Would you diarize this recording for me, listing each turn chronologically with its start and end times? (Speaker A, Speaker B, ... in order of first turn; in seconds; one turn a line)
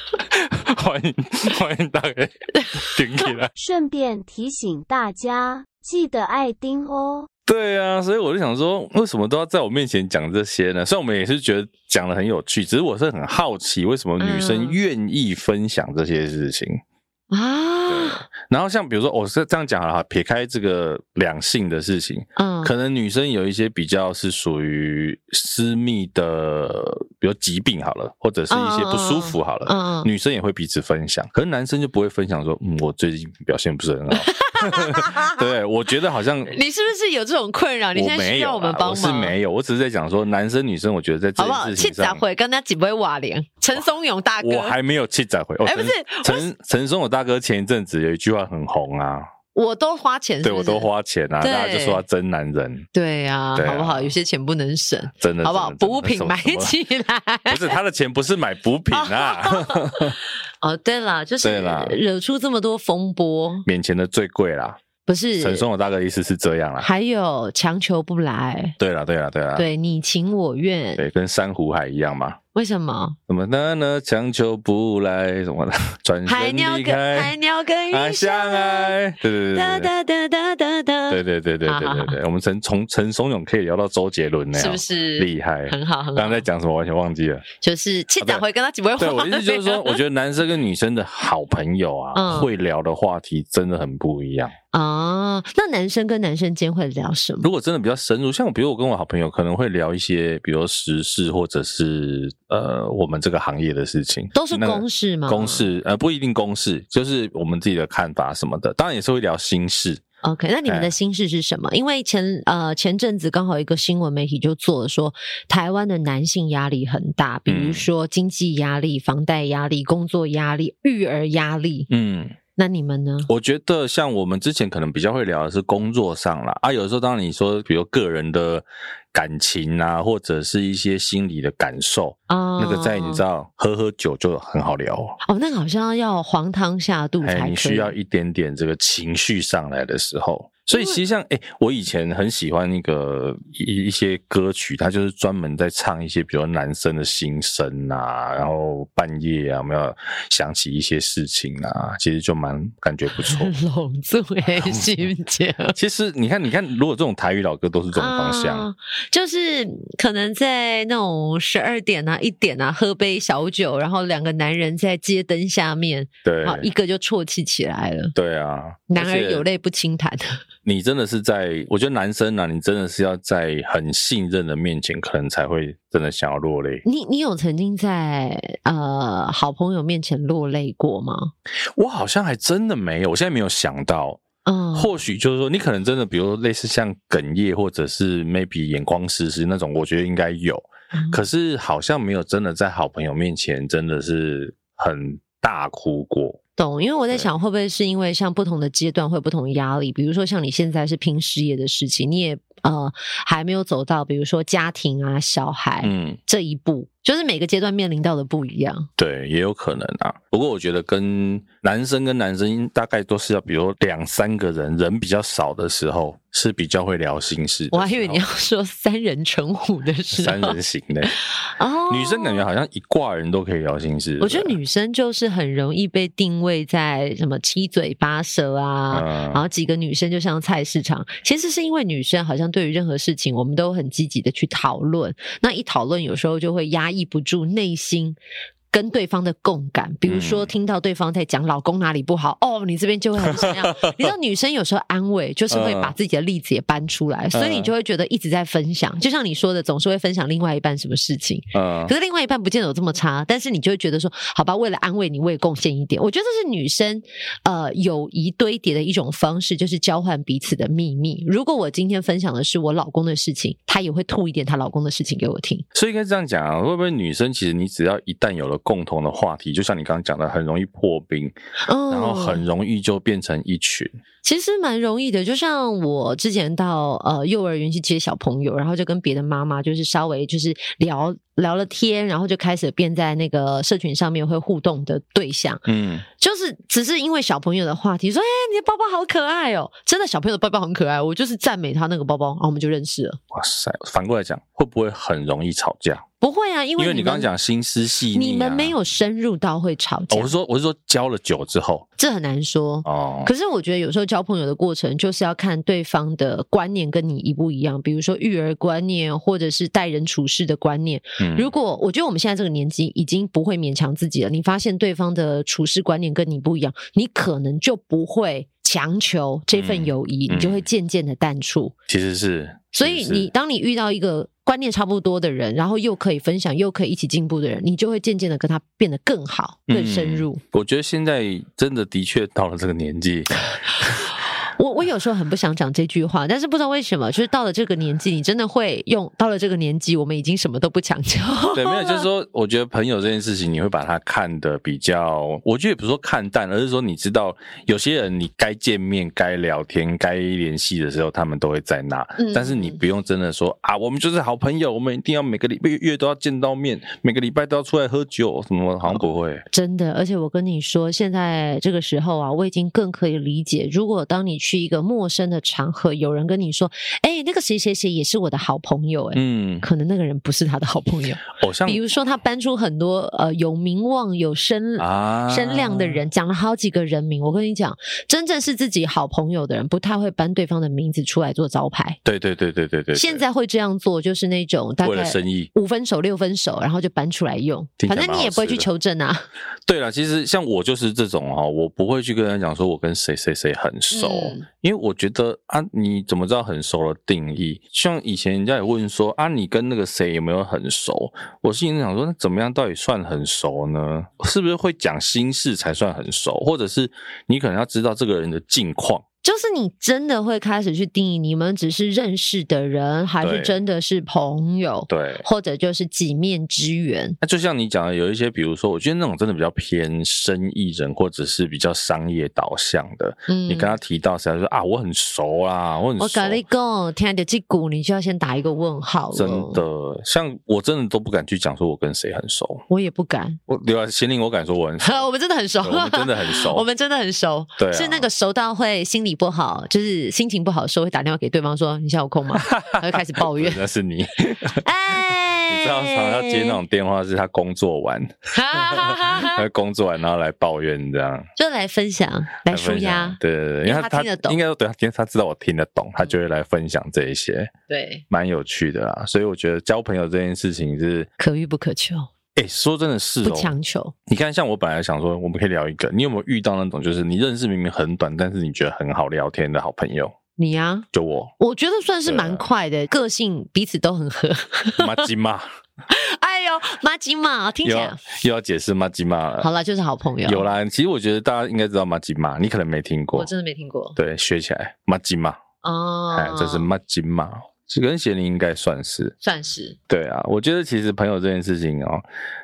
Speaker A: 0.3-3.5
Speaker B: 3.5-7.3
Speaker A: 7.5-16.8
Speaker C: 14.2-14.8
Speaker C: 17.3-18.2
Speaker A: 17.9-36.5
Speaker C: 22.4-22.7
Speaker C: 28.5-30.1
Speaker C: 34.1-35.5
Speaker C: 36.5-39.3
Speaker A: 37.9-42.2
Speaker C: 41.4-44.8
Speaker A: 44.4-49.2
Speaker C: 45.6-46.5
Speaker C: 49.5-50.9
Speaker A: 50.4-52.9
Speaker C: 51.4-52.0
Speaker C: 52.9-57.8
Speaker A: 53.5-54.1
Speaker A: 55.2-56.7
Speaker A: 57.5-60.2
Speaker C: 58.9-63.6
Speaker A: 61.4-62.0
Speaker A: 63.6-64.8
Speaker C: 65.0-65.7
Speaker A: 65.4-66.9
Speaker C: 66.8-68.8
Speaker A: 68.8-69.7
Speaker C: 69.5-71.0
Speaker A: 71.0-72.4
Speaker C: 72.5-73.2
Speaker A: 73.3-77.3
Speaker C: 76.2-79.0
Speaker A: 77.9-79.9
Speaker C: 79.5-82.2
Speaker A: 81.1-87.5
Speaker C: 84.5-86.4
Speaker C: 87.6-90.0
Speaker A: 89.0-94.5
Speaker C: 92.1-92.5
Speaker C: 94.7-97.5
Speaker A: 97.4-110.0
Speaker C: 104.3-105.7
Speaker C: 110.2-121.9
Speaker A: 110.7-110.9
Speaker A: 117.5-117.9
Speaker A: 121.9-122.4
Speaker C: 122.5-123.3
Speaker A: 123.3-135.2
Speaker C: 132.3-133.2
Speaker C: 135.2-137.9
Speaker A: 137.2-153.5
Speaker C: 140.7-141.0
Speaker C: 153.1-155.8
Speaker A: 155.7-158.7
Speaker C: 157.9-168.1
Speaker A: 166.2-166.7
Speaker A: 168.1-169.4
Speaker C: 168.9-170.4
Speaker A: 170.6-176.8
Speaker C: 176.8-181.3
Speaker A: 181.8-184.2
Speaker C: 184.4-184.9
Speaker A: 184.7-196.4
Speaker C: 190.9-191.2
Speaker C: 196.6-208.9
Speaker A: 205.8-206.2
Speaker A: 209.0-218.2
Speaker C: 217.7-222.4
Speaker A: 220.1-221.2
Speaker A: 221.9-224.6
Speaker C: 224.2-238.2
Speaker A: 228.9-229.4
Speaker C: 238.7-265.6
Speaker A: 240.1-240.5
Speaker A: 243.2-244.1
Speaker A: 245.5-245.9
Speaker A: 247.3-247.7
Speaker A: 251.5-251.9
Speaker A: 265.7-271.3
Speaker C: 271.6-272.4
Speaker A: 271.9-274.0
Speaker C: 274.2-285.6
Speaker A: 285.6-286.1
Speaker C: 286.2-293.2
Speaker A: 293.3-296.0
Speaker C: 296.2-297.3
Speaker A: 296.8-298.7
Speaker C: 298.1-300.3
Speaker A: 300.1-301.9
Speaker C: 302.0-321.7
Speaker A: 302.8-303.3
Speaker A: 311.2-311.5
Speaker A: 319.5-320.6
Speaker A: 321.9-323.3
Speaker C: 322.7-330.4
Speaker A: 329.7-334.1
Speaker C: 334.4-342.1
Speaker A: 341.5-359.4
Speaker C: 352.2-352.8
Speaker C: 358.8-382.0
Speaker A: 369.1-369.6
Speaker A: 371.3-371.8
Speaker A: 374.8-376.0
Speaker A: 382.0-383.2
Speaker C: 382.9-389.3
Speaker A: 384.8-385.5
Speaker A: 387.8-388.7
Speaker A: 389.6-409.0
Speaker C: 393.9-394.4
Speaker C: 409.2-417.2
Speaker A: 413.2-413.6
Speaker A: 414.9-415.2
Speaker A: 417.2-426.4
Speaker C: 423.3-423.8
Speaker C: 426.0-429.6
Speaker A: 429.1-432.6
Speaker C: 432.7-433.4
Speaker A: 433.5-435.0
Speaker C: 434.8-443.6
Speaker A: 435.6-436.6
Speaker A: 437.6-438.1
Speaker A: 442.3-451.3
Speaker C: 444.6-446.6
Speaker C: 448.3-449.4
Speaker C: 451.4-454.4
Speaker A: 452.5-457.5
Speaker C: 457.7-458.0
Speaker A: 458.1-461.1
Speaker C: 461.2-462.1
Speaker A: 462.3-463.5
Speaker C: 463.2-463.9
Speaker A: 464.1-470.1
Speaker C: 470.4-470.9
Speaker A: 470.9-471.3
Speaker C: 471.4-475.1
Speaker A: 472.0-472.4
Speaker A: 474.8-475.4
Speaker C: 475.9-478.1
Speaker A: 477.6-479.5
Speaker C: 479.4-480.4
Speaker A: 480.2-483.3
Speaker C: 483.1-484.0
Speaker A: 483.9-485.4
Speaker C: 485.6-486.7
Speaker A: 486.1-489.1
Speaker C: 489.2-489.8
Speaker A: 489.9-492.0